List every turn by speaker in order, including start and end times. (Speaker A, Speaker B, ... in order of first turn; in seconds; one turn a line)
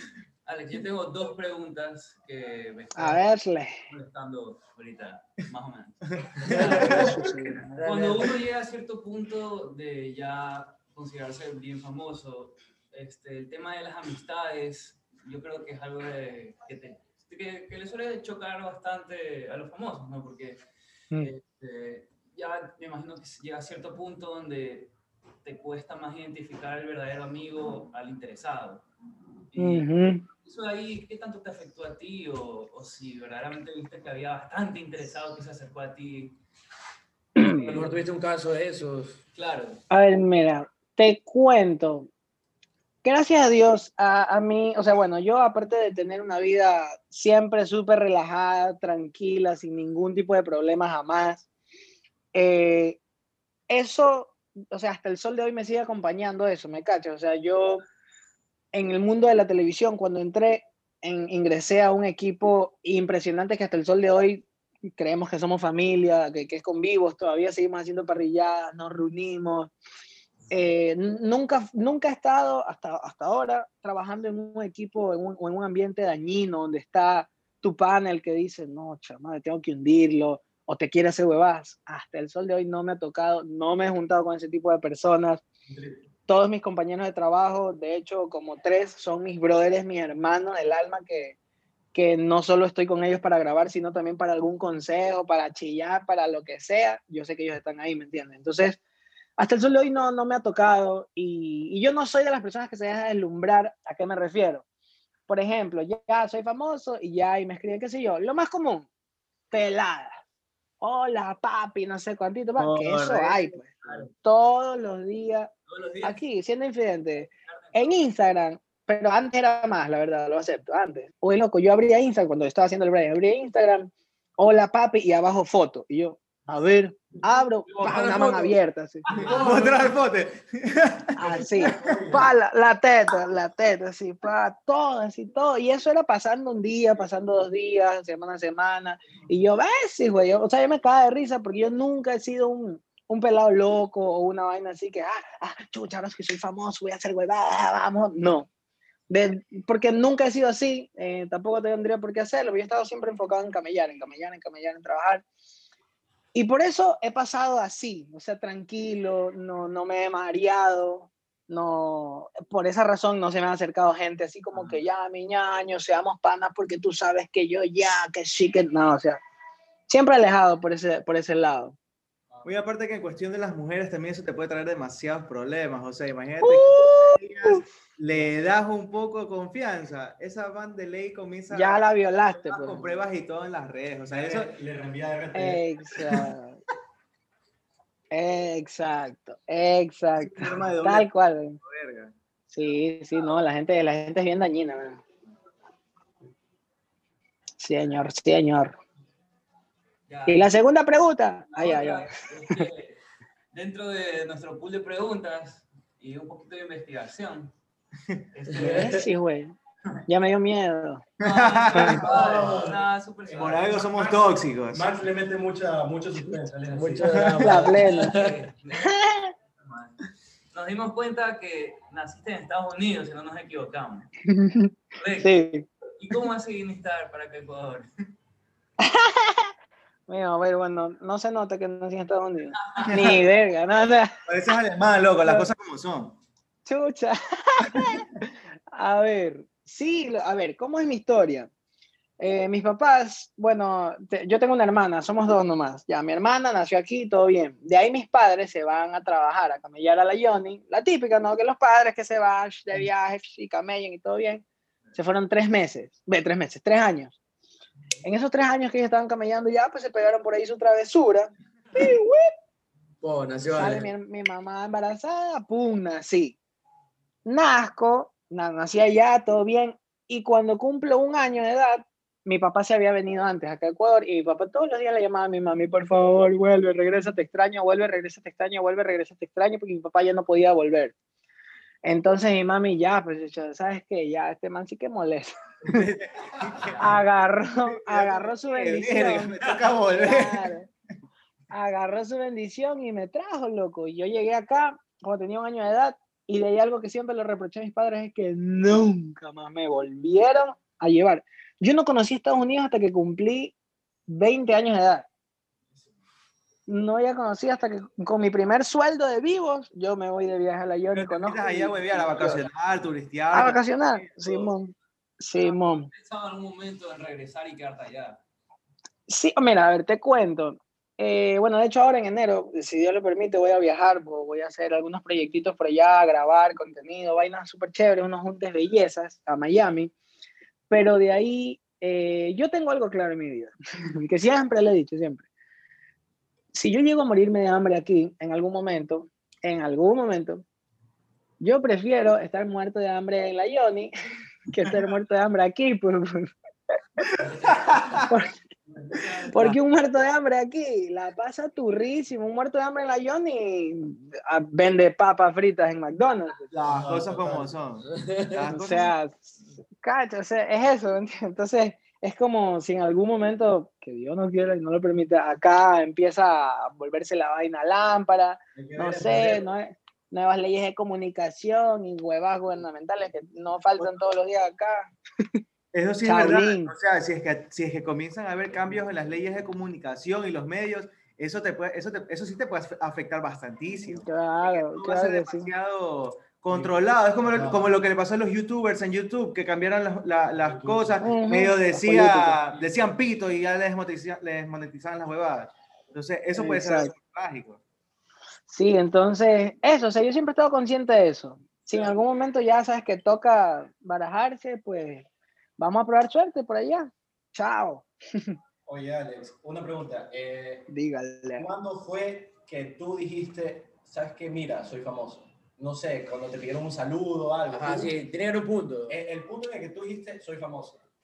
Speaker A: 0.5-3.2
Speaker B: 3.0-3.8
Speaker A: 3.9-7.1
Speaker B: 6.7-8.2
Speaker A: 7.7-20.6
Speaker A: 21.2-24.9
Speaker A: 25.4-28.9
Speaker A: 29.5-29.9
Speaker B: 29.6-30.2
Speaker A: 30.4-36.4
Speaker B: 37.4-37.7
Speaker C: 37.4-39.2
Speaker A: 37.6-38.0
Speaker A: 39.4-39.8
Speaker B: 39.9-42.1
Speaker B: 43.0-51.5
Speaker B: 52.3-53.0
Speaker B: 53.7-57.9
Speaker B: 58.7-69.7
Speaker B: 70.5-85.4
Speaker D: 85.7-86.0
Speaker B: 86.3-91.4
Speaker B: 91.9-98.8
Speaker B: 99.4-104.7
Speaker B: 105.3-108.9
Speaker B: 109.5-110.2
Speaker B: 110.8-113.7
Speaker E: 112.6-113.5
Speaker B: 114.2-115.5
Speaker A: 115.7-116.2
Speaker B: 116.0-129.0
Speaker A: 117.6-118.0
Speaker C: 127.7-128.6
Speaker A: 129.1-129.4
Speaker C: 129.2-129.8
Speaker E: 129.2-131.4
Speaker B: 131.2-148.5
Speaker D: 131.4-132.3
Speaker B: 149.1-155.2
Speaker B: 156.3-169.2
Speaker B: 169.9-171.8
Speaker E: 172.4-181.8
Speaker B: 176.4-177.6
Speaker D: 178.1-178.6
Speaker B: 181.5-182.9
Speaker E: 182.3-184.5
Speaker D: 184.1-185.7
Speaker B: 185.3-186.6
Speaker B: 188.1-191.6
Speaker E: 190.2-191.1
Speaker E: 191.6-192.1
Speaker B: 192.5-195.0
Speaker B: 197.6-198.8
Speaker A: 200.1-200.5
Speaker B: 200.3-202.6
Speaker A: 201.5-203.0
Speaker A: 203.5-207.5
Speaker A: 208.3-209.1
Speaker B: 208.6-209.5
Speaker C: 208.6-208.9
Speaker B: 210.1-211.0
Speaker E: 211.2-212.1
Speaker A: 211.2-213.8
Speaker D: 211.9-217.8
Speaker C: 212.0-212.7
Speaker E: 213.3-214.9
Speaker C: 216.7-218.3
Speaker E: 217.1-217.3
Speaker B: 217.4-218.1
Speaker A: 217.7-218.9
Speaker B: 218.8-219.3
Speaker A: 219.6-220.0
Speaker A: 220.5-224.1
Speaker B: 224.3-225.7
Speaker A: 225.0-225.3
Speaker A: 226.0-227.9
Speaker B: 228.8-229.5
Speaker B: 230.1-234.2
Speaker A: 232.6-233.1
Speaker E: 232.8-233.2
Speaker E: 234.3-236.2
Speaker B: 236.7-241.5
Speaker B: 242.2-257.2
Speaker B: 258.0-262.3
Speaker C: 263.0-263.9
Speaker B: 263.6-266.4
Speaker B: 267.3-280.9
Speaker B: 281.8-285.9
Speaker E: 285.7-287.0
Speaker B: 286.8-289.3
Speaker E: 287.7-290.5
Speaker B: 289.9-290.7
Speaker B: 291.5-303.6
Speaker B: 304.1-305.1
Speaker B: 306.7-312.3
Speaker E: 310.9-313.6
Speaker B: 313.3-315.9
Speaker A: 314.1-314.5
Speaker A: 315.4-318.2
Speaker B: 319.1-329.9
Speaker B: 330.7-335.3
Speaker B: 336.5-340.4
Speaker B: 341.4-343.9
Speaker B: 344.5-346.3
Speaker D: 347.2-347.7
Speaker C: 347.6-348.0
Speaker E: 347.7-348.0
Speaker B: 348.0-348.4
Speaker D: 348.8-349.1
Speaker B: 348.9-356.5
Speaker D: 356.5-357.6
Speaker E: 356.8-358.9
Speaker C: 357.9-358.6
Speaker B: 358.5-375.4
Speaker D: 368.6-369.4
Speaker E: 375.7-397.6
Speaker B: 376.0-376.7
Speaker B: 383.8-385.5
Speaker D: 386.5-387.7
Speaker D: 390.3-391.1
Speaker B: 391.0-392.4
Speaker B: 396.3-396.9
Speaker B: 398.5-405.1
Speaker B: 405.6-408.4
Speaker D: 408.7-410.7
Speaker B: 410.7-411.5
Speaker D: 411.4-417.9
Speaker C: 417.5-419.0
Speaker D: 418.9-420.8